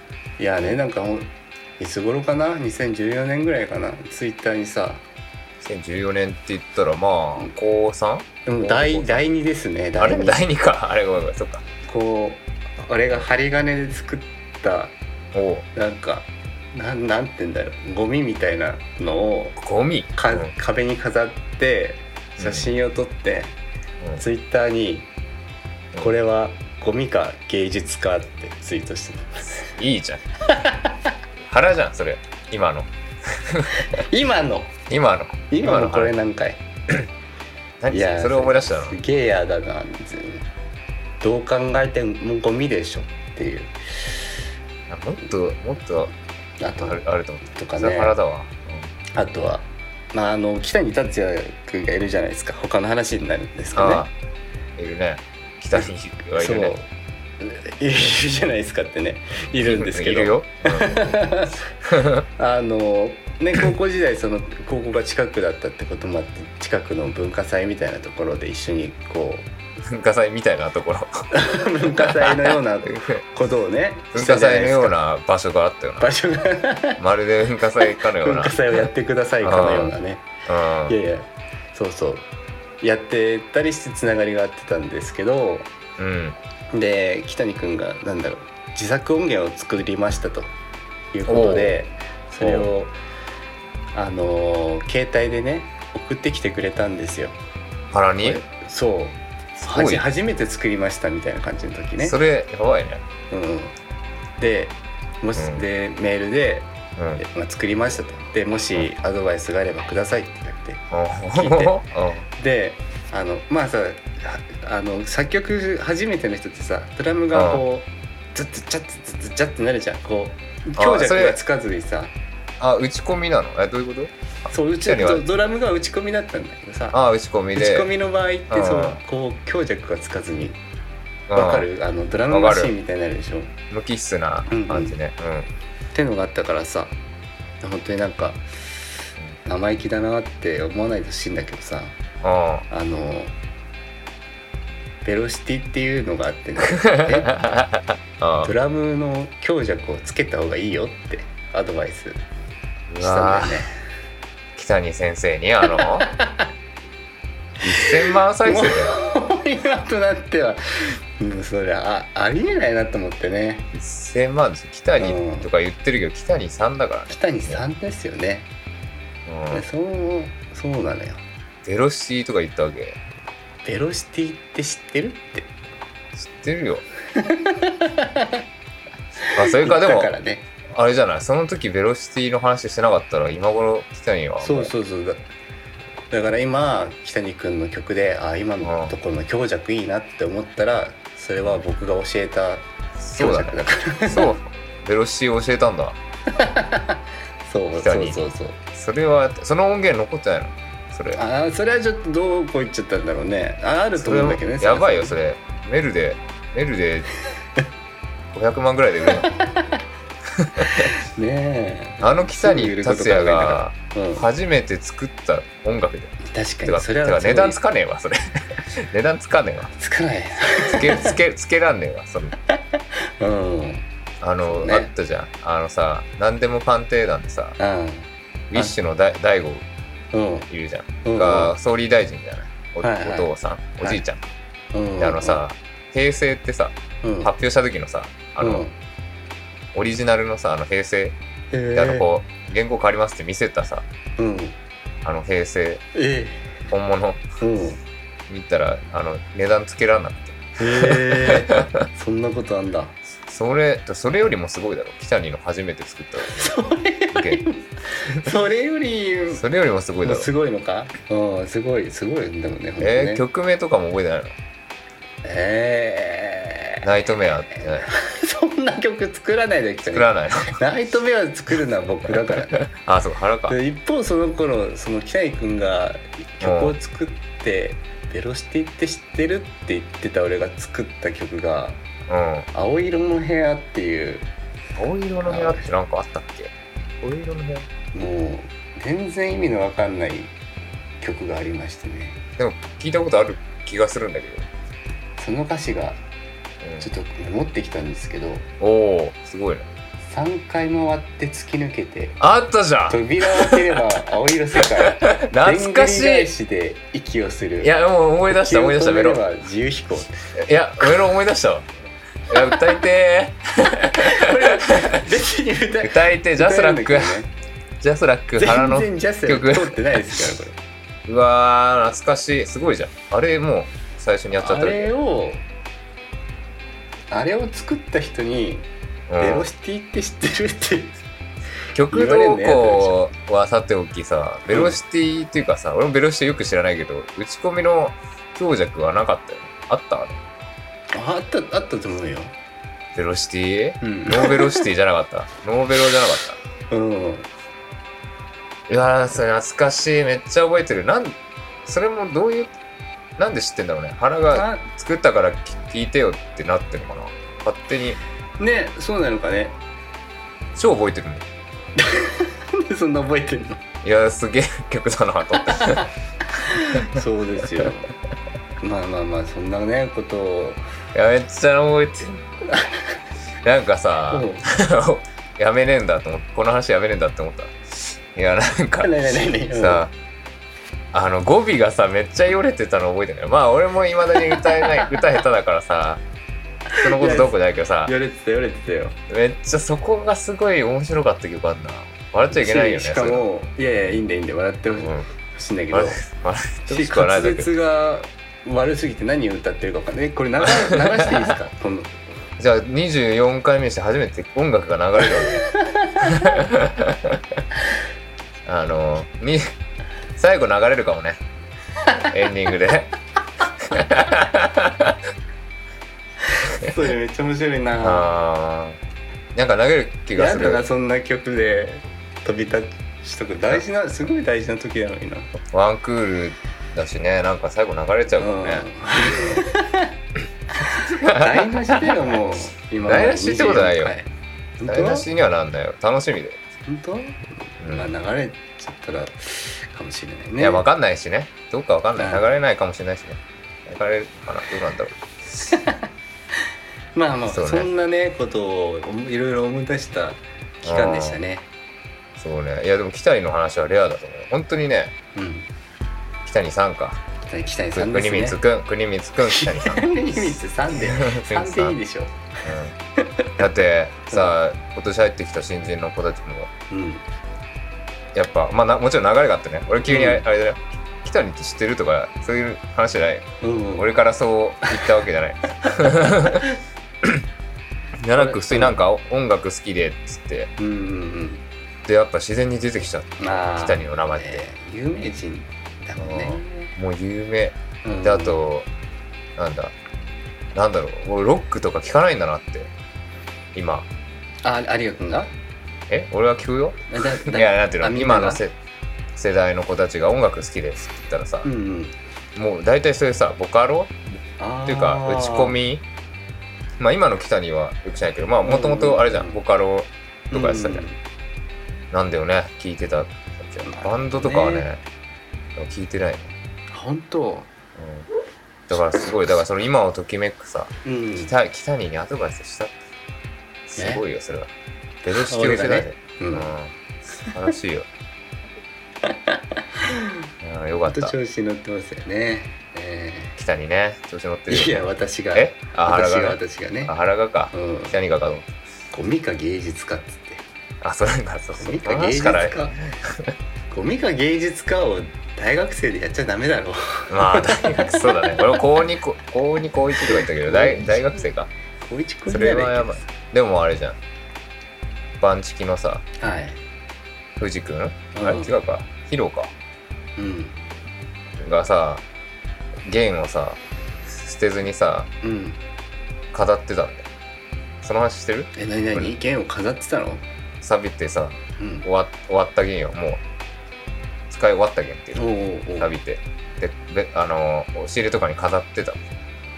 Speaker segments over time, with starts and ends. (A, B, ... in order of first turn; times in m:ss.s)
0:00.4-0:05.0 A
0:05.6-0:09.2 B
0:08.5-0:10.4 A
0:10.0-0:11.6 B
0:11.8-0:14.9 A
0:15.3-0:15.7 B
0:15.7-0:19.6 A
0:19.6-0:20.5 B
0:20.2-0:23.6 A
0:22.4-0:22.7 B
0:24.2-0:25.1 A
0:26.0-0:29.7 A
0:29.6-0:30.2 B
0:30.5-0:31.1 A
0:31.5-0:33.9 B
0:33.8-0:34.8 A
0:34.9-0:36.2 B
0:35.5-0:36.6 A
0:37.8-0:39.0 B
0:37.9-0:40.5 A
0:41.2-0:44.2 A
0:44.9-0:46.1 B
0:46.6-0:48.2 A
0:46.8-0:48.9 B
0:49.1-0:54.1 A
0:53.8-0:54.1 B
0:54.8-0:56.8 B
0:56.4-0:56.9 A
0:57.4-1:01.6 A
0:59.5-1:01.1 B
1:01.9-1:02.2 B
1:02.4-1:09.5 A
1:09.9-1:11.2 B
1:11.3-1:15.0 A
1:12.0-1:13.2 B
1:14.1-1:16.1 B
1:16.0-1:17.0 A
1:17.0-1:18.8 B
1:17.8-1:20.3 A
1:19.4-1:21.0 B
1:20.9-1:22.3 A
1:22.8-1:25.7 A
1:26.0-1:26.4 B
1:26.7-1:30.5 A
1:31.1-1:33.0 A
1:31.3-1:31.8 B
1:32.4-1:32.7 B
1:33.9-1:37.4 A
1:37.9-1:38.4 B
1:38.2-1:42.2 A
1:39.6-1:40.1 B
1:42.0-1:43.0 B
1:43.3-1:43.7 A
1:44.4-1:50.8 A
1:45.4-1:45.7 B
1:47.0-1:47.2 B
1:50.9-1:52.2 B
1:51.3-2:02.1 A
1:57.3-1:57.6 B
2:00.8-2:01.4 B
2:02.6-2:04.1 B
2:04.5-2:07.0 A
2:04.8-2:05.3 B
2:06.9-2:07.9 B
2:07.6-2:10.6 A
2:08.5-2:09.0 B
2:11.3-2:11.7 B
2:11.3-2:13.5 A
2:12.3-2:12.7 B
2:13.7-2:15.5 B
2:14.5-2:15.0 A
2:15.9-2:16.9 A
2:17.6-2:18.4 A
2:19.5-2:22.0 A
2:22.2-2:22.7 B
2:22.7-2:23.3 A
2:25.0-2:27.3 A
2:26.8-2:28.5 B
2:28.4-2:32.2 A
2:32.9-2:33.6 B
2:33.0-2:33.7 A
2:34.6-2:36.1 B
2:35.6-2:36.5 A
2:37.6-2:39.0 B
2:38.4-2:43.7 A
2:43.7-2:47.6 B
2:45.0-2:45.5 A
2:47.1-2:48.5 A
2:49.3-2:49.7 B
2:49.5-2:51.2 A
2:51.6-2:53.0 B
2:53.6-2:55.5 A
2:56.1-2:56.8 B
2:57.2-2:58.3 A
2:59.2-3:00.5 A
2:59.4-3:00.1 B
3:00.7-3:04.7 B
3:04.4-3:05.2 A
3:06.1-3:12.7 A
3:08.6-3:08.9 B
3:13.0-3:16.0 B
3:13.2-3:14.3 A
3:16.4-3:18.6 A
3:17.8-3:18.2 B
3:18.7-3:21.2 B
3:21.2-3:25.2 A
3:24.0-3:27.1 B
3:28.3-3:29.3 B
3:29.1-3:29.7 A
3:30.4-3:30.9 B
3:30.6-3:34.3 A
3:32.0-3:36.1 B
3:36.2-3:37.6 A
3:36.7-3:39.7 B
3:39.8-3:41.2 A
3:40.6-3:42.4 B
3:42.5-3:43.9 A
3:44.2-3:47.6 B
3:44.5-3:44.9 A
3:47.6-3:48.8 A
3:48.5-3:49.6 B
3:50.1-3:50.5 A
3:50.5-3:54.2 B
3:51.0-3:51.6 A
3:52.8-3:54.0 A
3:54.7-3:55.4 A
3:55.0-3:58.6 B
3:57.0-3:57.3 A
3:58.4-3:58.7 A
3:59.7-4:01.2 B
4:01.5-4:02.1 A
4:01.7-4:03.8 B
4:04.2-4:04.6 A
4:05.0-4:05.8 B
4:06.0-4:06.5 A
4:06.7-4:07.2 B
4:07.4-4:07.8 A
4:08.3-4:11.6 B
4:10.6-4:13.0 A
4:13.3-4:16.6 B
4:16.3-4:19.4 A
4:17.1-4:17.4 B
4:19.3-4:20.3 B
4:20.0-4:23.2 A
4:22.8-4:24.4 B
4:25.2-4:26.8 A
4:26.8-4:27.9 B
4:27.5-4:32.7 A
4:29.9-4:30.6 B
4:32.6-4:33.6 B
4:33.5-4:41.8 A
4:36.4-4:36.8 B
4:42.1-4:42.5 B
4:42.5-4:44.3 A
4:44.8-4:46.5 B
4:45.2-4:45.7 A
4:47.0-4:47.7 B
4:47.9-4:50.3 A
4:51.0-4:52.2 A
4:52.4-4:54.5 B
4:55.2-4:56.0 A
4:56.6-4:56.9 B
4:56.8-4:58.5 A
4:58.6-4:59.7 B
5:00.1-5:02.2 A
5:02.2-5:03.7 B
5:02.9-5:07.7 A
5:05.0-5:06.3 B
5:07.6-5:09.2 B
5:08.3-5:10.1 A
5:10.4-5:11.7 B
5:12.3-5:15.0 B
5:13.9-5:17.3 A
5:15.8-5:17.2 B
5:17.8-5:20.2 B
5:18.4-5:20.6 A
5:21.1-5:24.9 B
5:24.4-5:25.4 A
5:27.1-5:28.7 A
5:29.1-5:29.5 B
5:29.2-5:31.0 A
5:31.7-5:40.2 B
5:31.9-5:33.0 A
5:34.5-5:34.8 A
5:40.9-5:42.3 A
5:43.0-5:46.4 B
5:43.8-5:44.6 A
5:46.7-5:47.3 A
5:48.7-5:52.5 B
5:53.2-5:58.0 B
5:54.3-5:54.7 A
5:58.4-5:59.6 A
6:00.6-6:01.2 B
6:01.8-6:03.6 A
6:03.8-6:05.9 B
6:05.5-6:07.9 A
6:08.6-6:10.6 A
6:10.9-6:12.2 B
6:12.6-6:13.0 A
6:13.4-6:18.9 B
6:14.1-6:14.4 A
6:18.8-6:19.9 A
6:19.5-6:19.9 B
6:20.9-6:26.0 B
6:24.2-6:24.8 A
6:26.7-6:27.3 A
6:26.8-6:27.9 B
6:27.8-6:29.0 A
6:29.1-6:33.3 B
6:32.3-6:36.0 A
6:34.8-6:35.1 B
6:35.7-6:37.5 B
6:36.7-6:42.0 A
6:41.0-6:41.3 B
6:42.4-6:45.4 B
6:45.1-6:46.2 A
6:46.0-6:47.4 B
6:48.5-6:49.4 B
6:50.2-6:51.2 B
6:52.1-6:52.9 B
6:53.6-6:55.0 B
6:56.5-6:58.1 A
6:57.8-6:58.8 B
6:59.3-7:00.6 B
7:00.2-7:05.3 A
7:05.4-7:09.4 B
7:08.2-7:09.9 A
7:10.6-7:15.1 A
7:10.7-7:12.0 B
7:12.8-7:14.0 B
7:14.7-7:16.4 B
7:16.7-7:20.7 A
7:17.6-7:17.9 B
7:20.4-7:25.0 B
7:22.0-7:22.3 A
7:25.4-7:25.8 A
7:27.0-7:31.5 A
7:27.3-7:27.7 B
7:30.6-7:31.2 B
7:32.2-7:34.9 B
7:35.2-7:35.5 A
7:36.2-7:37.0 B
7:37.3-7:38.4 A
7:37.7-7:39.9 B
7:39.3-7:42.2 A
7:40.8-7:41.8 B
7:42.4-7:42.8 B
7:43.0-7:43.4 A
7:43.4-7:46.5 B
7:44.1-7:44.4 A
7:46.7-7:47.0 A
7:48.1-7:56.5 B
7:49.8-7:50.2 A
7:53.4-7:53.9 A
7:56.2-7:56.6 A
7:58.0-8:00.5 B
7:58.2-7:58.8 A
8:00.6-8:01.4 A
8:01.9-8:04.4 B
8:03.2-8:06.7 A
8:06.0-8:08.7 B
8:07.8-8:08.4 A
8:09.4-8:09.7 B
8:10.5-8:12.7 B
8:13.6-8:13.9 B
8:14.4-8:15.3 A
8:15.9-8:18.5 B
8:16.9-8:18.4 A
8:19.2-8:21.5 B
8:21.4-8:22.0 A
8:22.4-8:24.0 B
8:24.4-8:25.6 A
8:24.7-8:25.8 B
8:26.8-8:30.8 B
8:28.4-8:29.4 A
8:30.3-8:31.0 A
8:31.9-8:34.8 B
8:33.6-8:34.7 A
8:35.6-8:36.3 B
8:36.7-8:37.5 A
8:37.8-8:38.1 B
8:38.7-8:42.7 B
8:40.8-8:41.3 A
8:43.7-8:44.5 B
8:43.8-8:44.0 A
8:45.0-8:46.8 B
8:45.1-8:46.5 A
8:47.3-8:47.9 B
8:49.1-8:50.1 A
8:50.4-8:51.2 B
8:50.8-8:53.4 A
8:53.4-8:58.5 B
8:54.5-8:57.0 A
8:57.5-8:58.0 A
8:58.9-9:00.4 A
9:00.8-9:03.3 B
9:01.6-9:02.8 A
9:03.7-9:08.6 A
9:07.1-9:11.5 B
9:10.0-9:11.3 A
9:11.8-9:13.1 A
9:12.3-9:14.0 B
9:15.2-9:16.1 B
9:16.2-9:16.6 A
9:17.4-9:19.5 B
9:18.1-9:18.5 A
9:20.2-9:20.6 A
9:21.4-9:22.0 B
9:22.9-9:25.1 B
9:25.2-9:25.6 A
9:26.3-9:27.1 B
9:27.8-9:29.2 B
9:28.6-9:30.2 A
9:30.6-9:33.2 B
9:31.6-9:31.9 A
9:34.3-9:39.0 B
9:35.2-9:35.9 A